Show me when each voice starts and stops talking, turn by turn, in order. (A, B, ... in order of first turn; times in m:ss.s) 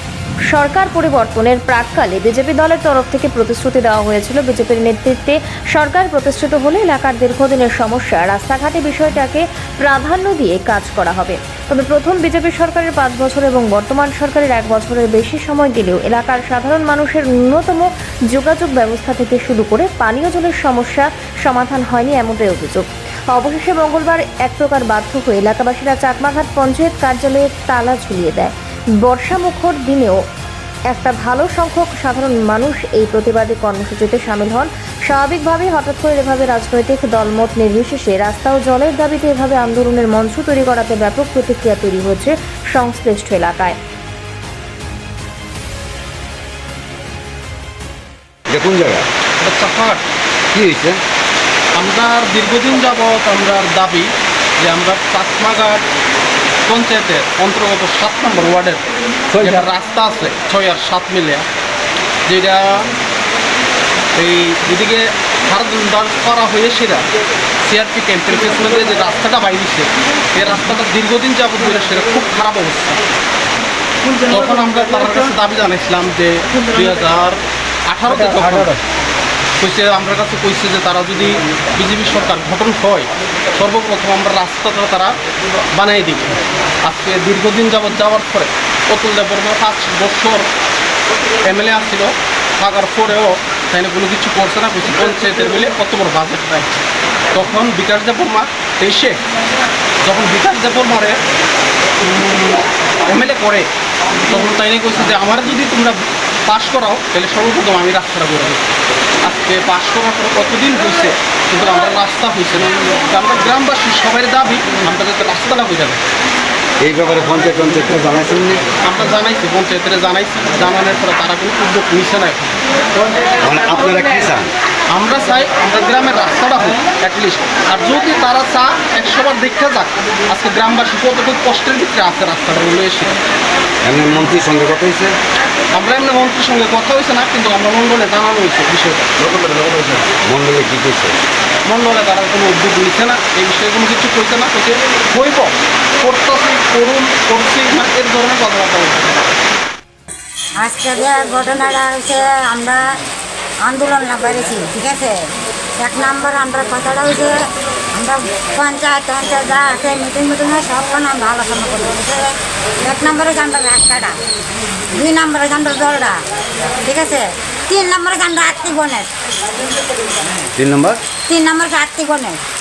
0:00.5-0:30.2 A
0:30.9-0:43.8 A
0:48.5-0:49.1 B
0:49.4-0:50.0 C
0:50.5-0:51.0 B
0:51.7-0:55.8 C
0:56.6-0:58.8 C
0:59.3-0:59.6 B
0:59.3-1:01.5 C
1:02.2-1:02.9 C
1:04.2-1:07.1 C
1:07.6-1:13.0 C
1:14.1-1:18.8 C
1:18.3-1:18.8 B
1:19.6-1:25.1 C
1:25.7-1:30.5 C
1:31.4-1:36.8 C
1:37.3-1:39.2 C
1:40.0-1:41.2 C
1:42.0-1:43.7 C
1:44.3-1:48.7 C
1:49.2-1:56.0 C
1:56.8-1:58.6 B
1:58.8-2:02.6 C
2:03.4-2:04.5 B
2:04.9-2:13.2 C
2:13.8-2:15.2 B
2:15.7-2:19.1 C
2:19.2-2:21.2 B
2:21.6-2:29.3 C
2:30.6-2:32.8 D
2:33.6-2:35.3 D
2:35.8-2:37.4 D
2:37.9-2:44.2 D
2:44.9-2:46.2 D
2:46.8-2:49.1 D
2:50.5-2:51.0 B
2:51.3-2:52.4 D